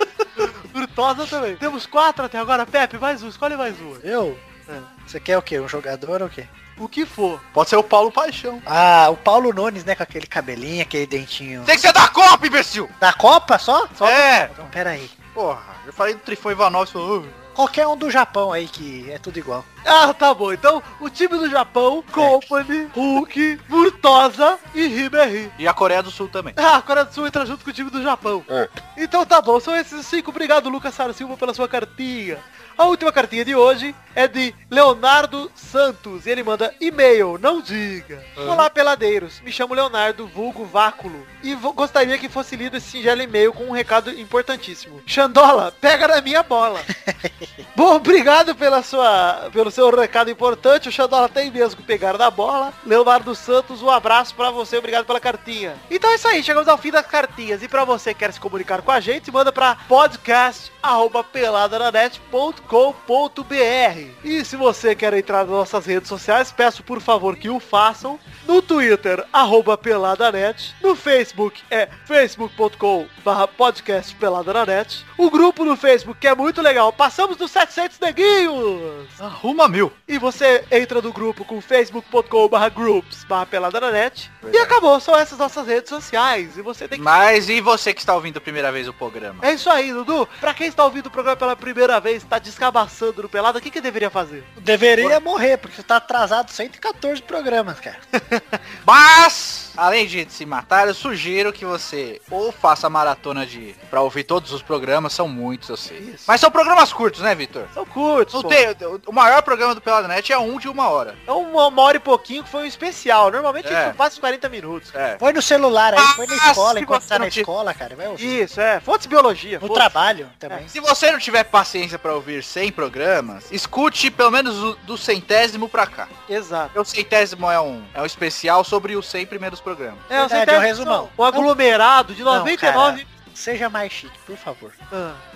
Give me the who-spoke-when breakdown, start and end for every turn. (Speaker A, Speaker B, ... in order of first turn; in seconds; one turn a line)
Speaker A: 0.4-4.0
Speaker B: 4.0-4.4
Speaker B: 5.0-6.5
Speaker A: 6.8-7.4
Speaker C: 7.5-8.6
Speaker B: 8.7-11.8
Speaker C: 11.6-12.9
Speaker B: 13.0-15.1
Speaker C: 14.0-14.5
Speaker C: 15.3-17.3
Speaker B: 17.5-19.6
Speaker A: 19.8-25.5
Speaker B: 22.1-22.4
Speaker C: 25.6-26.6
Speaker A: 26.6-46.9
Speaker C: 38.4-38.7
Speaker B: 46.9-47.6
Speaker A: 47.7-79.1
Speaker C: 79.2-79.9
Speaker A: 80.1-87.1
Speaker C: 84.4-84.7
Speaker C: 86.9-89.5
Speaker A: 89.4-94.5
Speaker B: 94.6-98.0
Speaker A: 98.2-98.4
Speaker C: 98.8-107.7
Speaker A: 106.0-106.3
Speaker A: 107.7-108.6
Speaker C: 108.3-111.2
Speaker A: 111.3-114.9
Speaker C: 113.6-114.0
Speaker C: 114.9-115.2
Speaker B: 115.2-118.4
Speaker C: 116.0-117.5
Speaker A: 118.2-119.9
Speaker B: 119.6-120.7
Speaker C: 120.7-126.1
Speaker A: 126.3-126.7
Speaker C: 126.7-130.1
Speaker A: 130.1-133.1
Speaker B: 130.1-131.5
Speaker B: 132.3-134.8
Speaker A: 134.9-135.2